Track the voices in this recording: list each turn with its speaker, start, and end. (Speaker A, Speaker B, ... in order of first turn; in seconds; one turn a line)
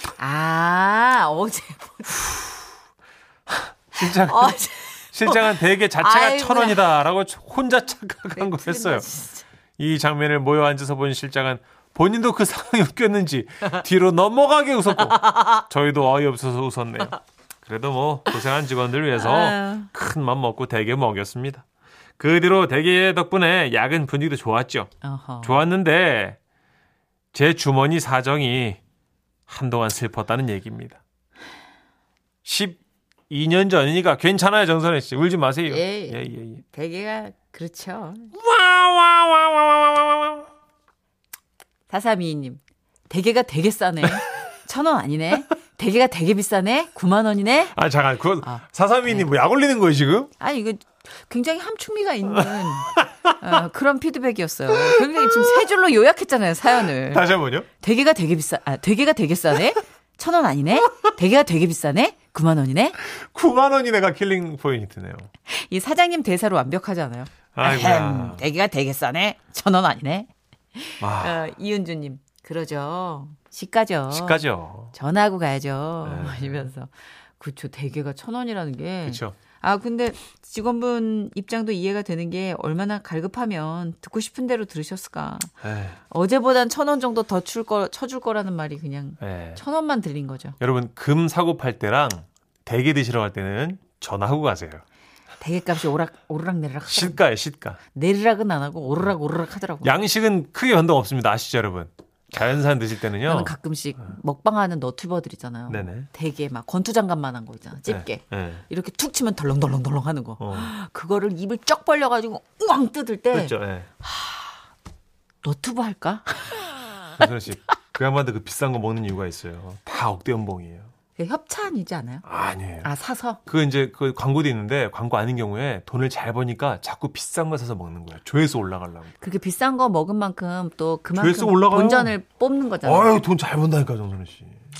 Speaker A: 0.2-2.5
Speaker B: 3.5-4.6
Speaker A: 4.0-6.8
Speaker B: 5.1-9.1
Speaker A: 8.3-9.4
Speaker B: 9.8-21.6
Speaker A: 15.1-15.6
Speaker A: 19.2-19.9
Speaker B: 22.2-24.9
Speaker A: 25.0-25.6
Speaker B: 25.4-26.4
Speaker B: 27.3-28.8
Speaker B: 29.5-31.0
Speaker B: 32.5-36.6
Speaker A: 35.7-38.3
Speaker B: 38.3-40.5
Speaker A: 41.9-47.8
Speaker B: 47.7-50.3
Speaker A: 48.4-49.3
Speaker A: 50.4-57.3
Speaker B: 52.4-53.4
Speaker B: 54.9-55.5
Speaker B: 57.1-57.7
Speaker A: 57.8-63.0
Speaker B: 63.0-65.3
Speaker A: 65.5-85.5
Speaker B: 67.5-68.4
Speaker B: 71.0-71.4
Speaker B: 74.1-74.9
Speaker B: 76.0-76.7
Speaker B: 79.0-79.3
Speaker B: 85.6-86.0
Speaker A: 86.1-90.6
Speaker B: 89.2-89.6
Speaker B: 90.6-94.8
Speaker A: 95.4-97.2
Speaker B: 96.9-97.8
Speaker A: 97.9-100.0
Speaker B: 99.8-103.5
Speaker A: 103.2-114.5
Speaker B: 105.7-106.1
Speaker B: 107.9-108.6
Speaker B: 110.4-110.7
Speaker B: 113.3-113.9
Speaker A: 115.4-116.6
Speaker B: 117.2-120.9
Speaker A: 121.2-122.2
Speaker B: 122.3-122.9
Speaker A: 122.8-123.4
Speaker B: 123.5-129.1
Speaker A: 129.2-133.2
Speaker B: 131.2-132.2
Speaker B: 132.8-134.6